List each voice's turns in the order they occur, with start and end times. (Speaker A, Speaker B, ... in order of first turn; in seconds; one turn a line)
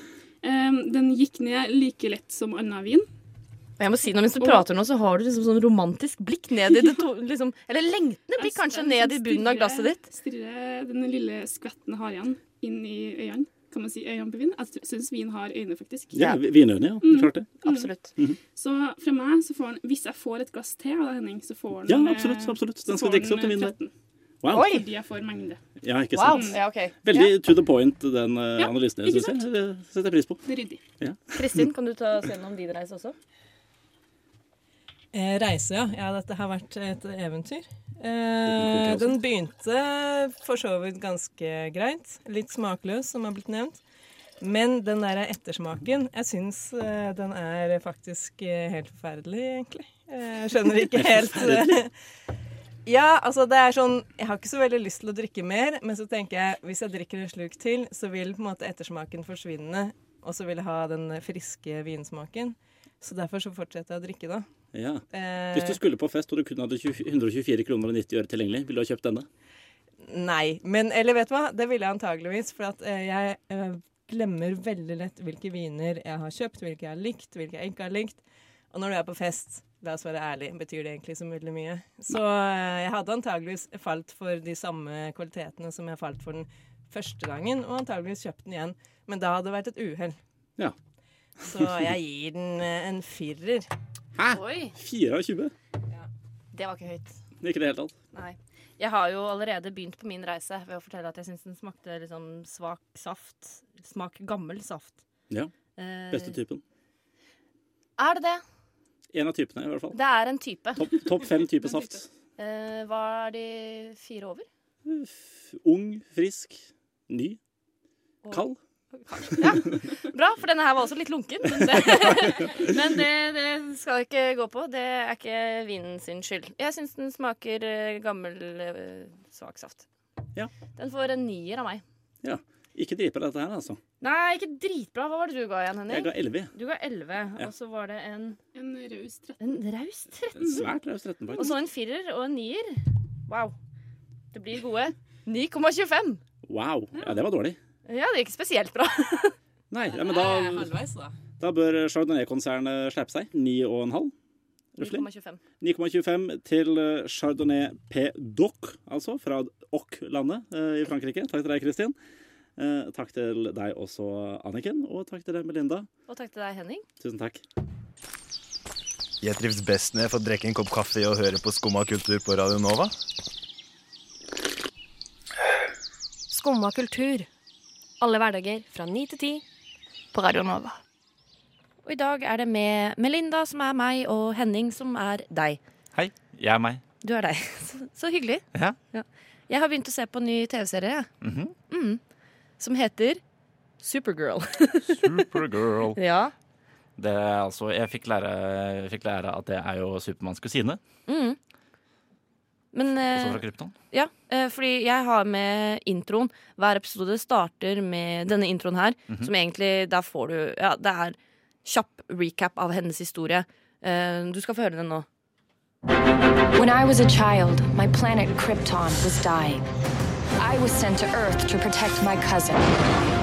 Speaker A: 0.4-3.1
Speaker B: 3.8-10.1
Speaker A: 4.4-4.6
Speaker A: 6.7-7.0
Speaker A: 8.4-16.2
Speaker C: 16.1-17.6
Speaker A: 17.0-17.9
Speaker B: 17.6-18.1
Speaker A: 18.6-23.9
Speaker C: 21.9-23.8
Speaker C: 24.4-24.7
Speaker B: 24.5-24.8
Speaker A: 24.6-25.6
Speaker C: 25.8-30.4
Speaker B: 26.1-27.3
Speaker A: 26.3-26.6
Speaker A: 28.6-29.4
Speaker A: 30.5-30.8
Speaker C: 31.0-31.6
Speaker B: 31.3-33.1
Speaker D: 35.1-43.8
Speaker C: 38.5-39.2
Speaker D: 44.4-51.9
Speaker C: 50.9-51.8
Speaker D: 52.9-64.5
Speaker C: 64.7-69.3
Speaker D: 65.1-65.8
Speaker D: 70.0-90.2
Speaker D: 91.4-93.7
Speaker C: 94.2-95.5
Speaker B: 94.3-94.7
Speaker B: 96.5-97.2
Speaker C: 97.4-97.9
Speaker B: 98.1-105.0
Speaker B: 105.8-106.4
Speaker C: 106.1-106.6
Speaker B: 108.0-108.4
Speaker C: 109.1-110.0
Speaker B: 109.9-110.9
Speaker C: 110.8-112.1
Speaker B: 112.4-114.5
Speaker C: 114.8-117.4
Speaker C: 118.3-118.6
Speaker B: 119.0-129.9
Speaker C: 119.3-119.5
Speaker C: 121.8-122.3
Speaker B: 130.8-131.8
Speaker C: 132.2-133.8
Speaker B: 134.0-138.4
Speaker C: 135.9-136.5
Speaker A: 138.6-139.4
Speaker B: 139.4-140.7
Speaker C: 140.4-141.5
Speaker B: 141.3-143.5
Speaker B: 144.3-146.2
Speaker C: 146.5-147.6
Speaker B: 147.9-149.3
Speaker C: 149.7-150.8
Speaker D: 149.9-151.2
Speaker C: 151.4-154.1
Speaker C: 154.8-155.1
Speaker B: 154.8-155.4
Speaker C: 155.6-161.9
Speaker C: 162.6-165.9
Speaker B: 166.1-166.8
Speaker C: 167.0-167.4
Speaker E: 169.2-172.9
Speaker F: 176.3-177.3
Speaker F: 178.0-179.4
Speaker F: 180.1-180.8
Speaker B: 181.8-185.6
Speaker C: 185.9-186.8
Speaker B: 187.0-191.1
Speaker C: 191.2-191.6
Speaker B: 191.7-192.0
Speaker B: 192.6-193.2
Speaker B: 193.8-195.3
Speaker C: 194.9-196.0
Speaker B: 195.9-196.3
Speaker C: 197.0-200.8
Speaker B: 201.1-201.4
Speaker B: 202.7-215.1
Speaker C: 203.1-203.8
Speaker G: 216.6-219.6
Speaker G: 220.4-222.7